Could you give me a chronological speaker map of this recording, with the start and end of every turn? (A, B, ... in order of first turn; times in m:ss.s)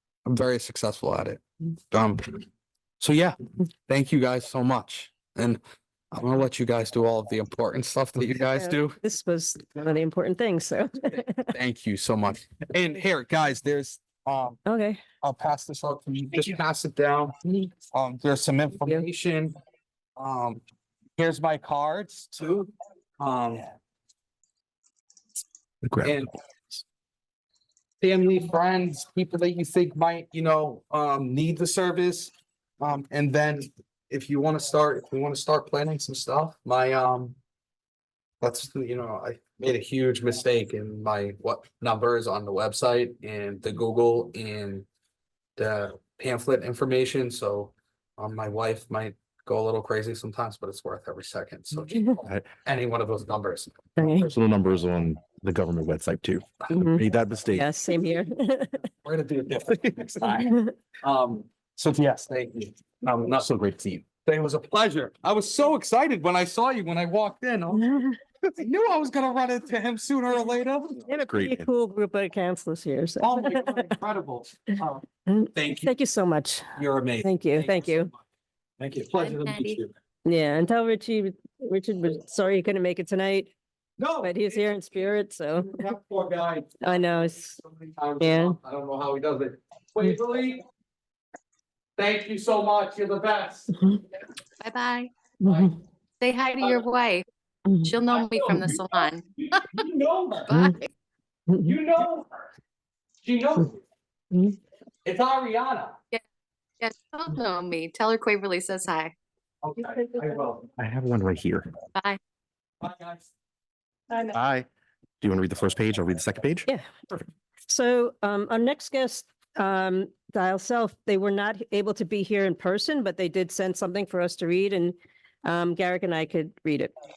0:00.3-0:02.4 A
0:03.0-0:03.4 A
0:03.9-0:05.6 A
0:06.1-0:09.0 A
0:08.5-0:11.5 B
0:11.2-0:14.6 A
0:14.7-0:15.0 B
0:15.2-0:19.6 A
0:20.2-0:20.6 A
0:21.2-0:23.7 A
0:25.9-0:26.2 C
0:26.0-0:26.3 A
0:28.0-0:37.4 A
0:38.4-0:44.9 A
0:45.6-0:54.1 A
0:54.0-0:54.3 B
0:54.0-0:57.7 C
0:56.7-0:58.9 B
0:59.0-1:07.8 A
1:00.4-1:00.7 B
1:07.8-1:08.2 B
1:08.4-1:11.1 A
1:11.1-1:13.9 B
1:11.3-1:11.7 C
1:13.2-1:15.0 A
1:15.3-1:16.7 B
1:15.6-1:15.9 A
1:16.8-1:18.2 A
1:17.2-1:18.1 B
1:18.8-1:19.9 A
1:19.2-1:19.8 D
1:20.2-1:23.5 B
1:24.0-1:24.6 A
1:24.2-1:25.8 B
1:25.6-1:30.6 A
1:26.8-1:27.6 B
1:28.2-1:28.6 B
1:32.0-1:33.7 A
1:34.6-1:35.1 D
1:35.4-1:35.7 B
1:35.4-1:35.8 A
1:36.2-1:37.2 D
1:37.7-1:37.9 B
1:37.8-1:39.8 D
1:38.0-1:40.6 A
1:40.5-1:40.9 D
1:41.5-1:41.8 B
1:41.6-1:42.3 A
1:43.2-1:43.8 A
1:45.0-1:46.0 A
1:46.8-1:49.1 D
1:49.6-1:50.7 A
1:50.8-1:51.7 C
1:52.8-1:53.3 A
1:54.3-1:54.7 C
1:55.2-1:56.7 C
1:56.7-1:57.1 B
1:57.7-2:06.9 B